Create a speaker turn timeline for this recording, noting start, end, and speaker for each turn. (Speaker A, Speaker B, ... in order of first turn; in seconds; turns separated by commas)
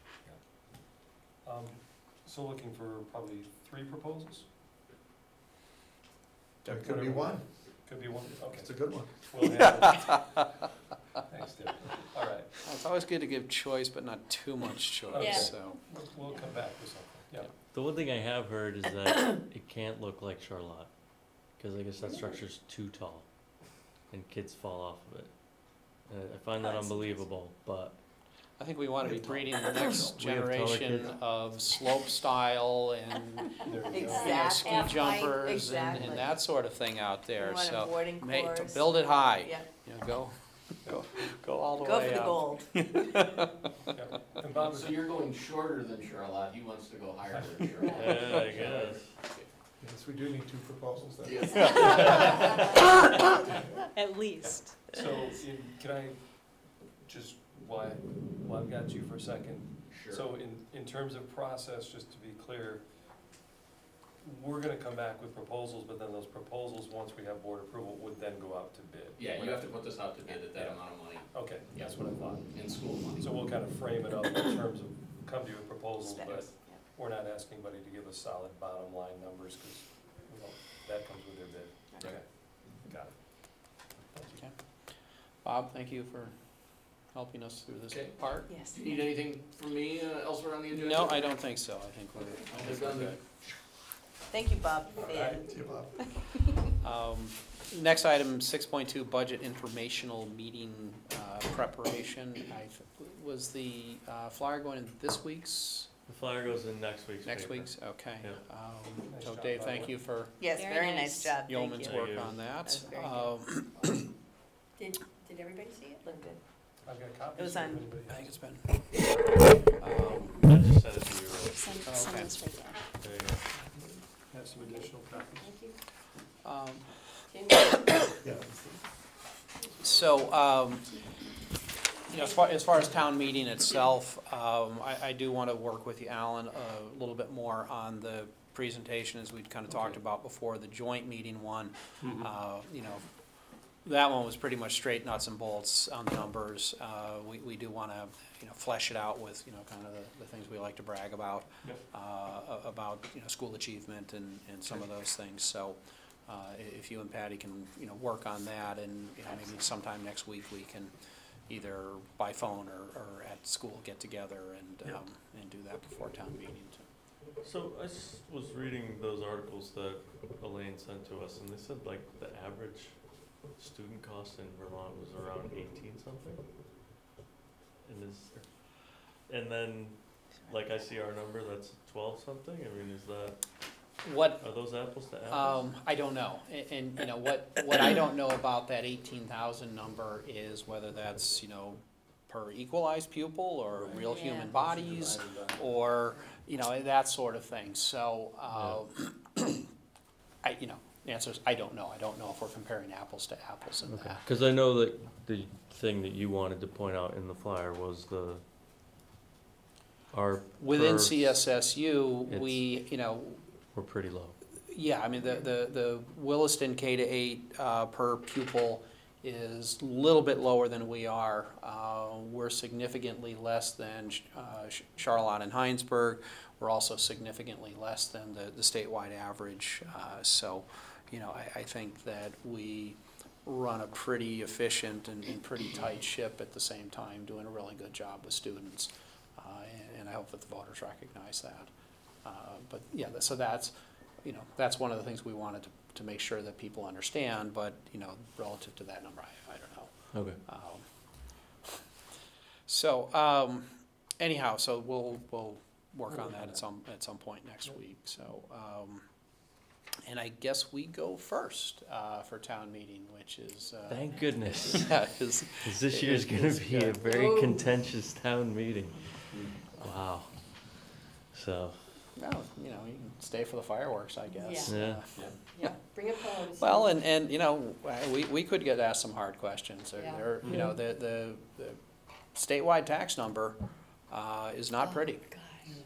Speaker A: 1.4-4.5, Speaker A: 6.7-10.5, Speaker B: 6.7-7.2, Speaker B: 8.7-9.1, Speaker A: 11.3-12.5, Speaker C: 12.6-15.8, Speaker A: 15.1-17.5, Speaker D: 15.2-15.5, Speaker E: 17.7-20.9, Speaker E: 21.6-23.3, Speaker E: 24.1-25.3, Speaker E: 26.1-28.0, Speaker C: 28.6-43.5, Speaker E: 30.1-31.2, Speaker A: 33.6-34.6, Speaker D: 33.9-36.4, Speaker D: 37.4-39.7, Speaker D: 41.8-42.7, Speaker A: 43.9-45.1, Speaker F: 44.6-49.5, Speaker A: 47.3-48.9, Speaker E: 48.0-49.1, Speaker B: 49.8-52.4, Speaker F: 51.2-52.1, Speaker A: 51.8-52.7, Speaker G: 54.0-54.6, Speaker A: 54.4-62.8, Speaker F: 59.9-60.2, Speaker A: 64.2-69.9, Speaker F: 69.2-71.3, Speaker A: 70.5-82.3, Speaker F: 72.5-73.3, Speaker D: 76.0-76.8, Speaker A: 82.8-83.1, Speaker C: 85.4-86.3, Speaker C: 87.1-88.5, Speaker F: 87.9-88.1, Speaker D: 88.5-88.8, Speaker F: 88.7-91.4, Speaker C: 90.8-93.2, Speaker F: 92.5-93.5, Speaker D: 94.3-96.0, Speaker A: 95.0-95.5, Speaker B: 95.5-95.9, Speaker C: 96.8-105.9, Speaker E: 106.1-108.4, Speaker C: 107.2-110.4, Speaker A: 109.1-109.9, Speaker D: 110.4-113.3, Speaker G: 110.5-111.4, Speaker C: 111.5-114.1, Speaker E: 111.8-112.4, Speaker D: 114.8-116.4, Speaker A: 116.8-118.4, Speaker D: 117.4-117.9, Speaker C: 118.1-120.5, Speaker E: 120.4-121.7, Speaker G: 121.4-122.8, Speaker C: 121.8-122.4, Speaker E: 123.0-123.5, Speaker A: 124.3-125.5, Speaker D: 125.4-125.7, Speaker C: 126.4-126.9, Speaker D: 127.3-127.9, Speaker C: 129.8-130.9, Speaker C: 132.1-143.0, Speaker C: 143.8-160.9, Speaker C: 161.5-166.9, Speaker E: 167.4-173.0, Speaker E: 173.5-176.4, Speaker E: 177.8-178.6, Speaker E: 179.2-183.5, Speaker C: 184.0-184.4, Speaker E: 184.4-185.6, Speaker C: 185.3-199.7, Speaker A: 193.7-195.8, Speaker D: 194.0-194.5, Speaker E: 198.5-198.8, Speaker C: 200.4-204.2, Speaker E: 203.9-208.4, Speaker E: 210.1-211.3, Speaker C: 210.6-213.4, Speaker E: 212.3-212.7, Speaker E: 213.7-214.4, Speaker C: 214.7-241.7, Speaker C: 242.2-249.9, Speaker E: 250.1-250.4, Speaker C: 250.4-250.8, Speaker C: 252.7-253.7, Speaker C: 254.2-259.1, Speaker C: 260.1-264.1, Speaker E: 263.9-271.9, Speaker C: 264.6-267.1, Speaker D: 267.2-267.4, Speaker C: 272.2-281.8, Speaker D: 274.4-274.7, Speaker E: 274.7-275.1, Speaker D: 275.6-276.9, Speaker C: 282.3-283.6, Speaker C: 284.1-285.3, Speaker D: 285.3-285.6